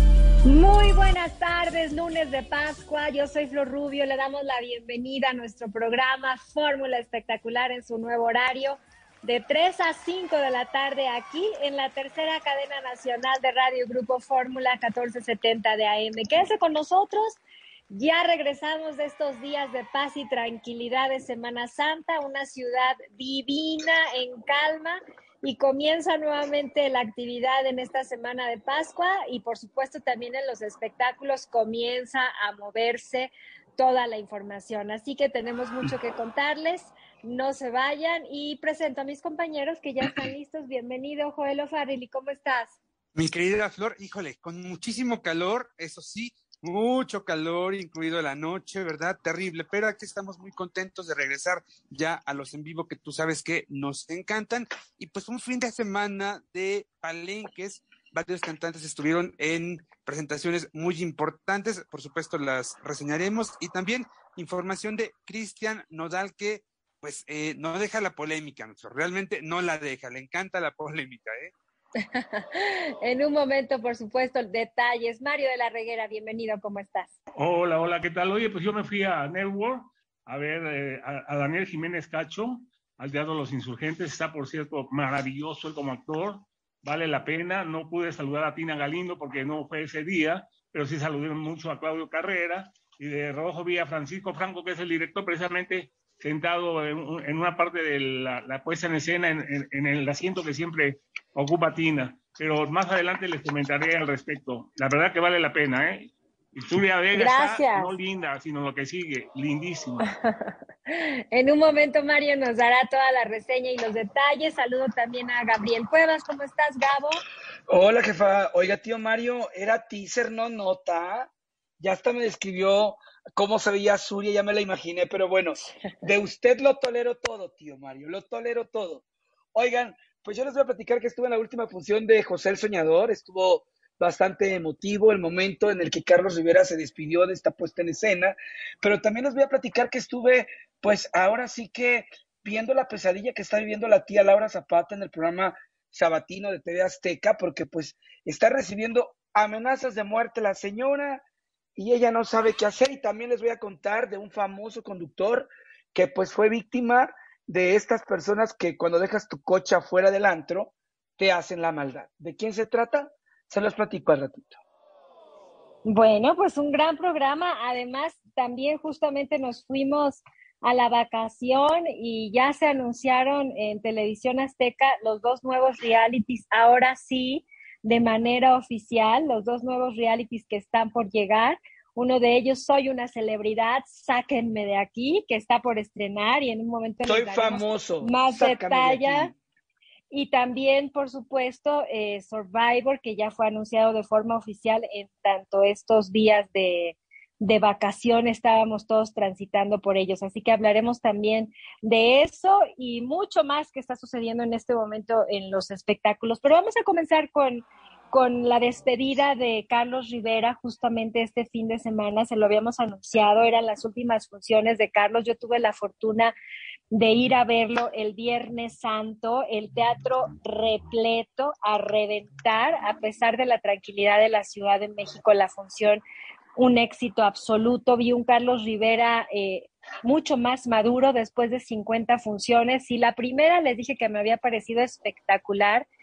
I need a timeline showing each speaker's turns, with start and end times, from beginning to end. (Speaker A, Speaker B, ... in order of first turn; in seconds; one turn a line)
Speaker A: 0.4-17.4
Speaker A: 17.9-42.8
Speaker B: 43.1-71.5
Speaker A: 72.0-77.1
Speaker C: 77.3-110.0
Speaker A: 107.1-108.0
Speaker A: 110.0-117.2
Speaker D: 117.7-121.3
Speaker D: 121.8-129.0
Speaker D: 129.5-151.2
Speaker D: 151.8-164.6
Speaker A: 165.9-189.3
Speaker D: 187.0-189.3
Speaker A: 190.1-216.3
Speaker A: 216.9-226.0
Speaker A: 226.6-235.8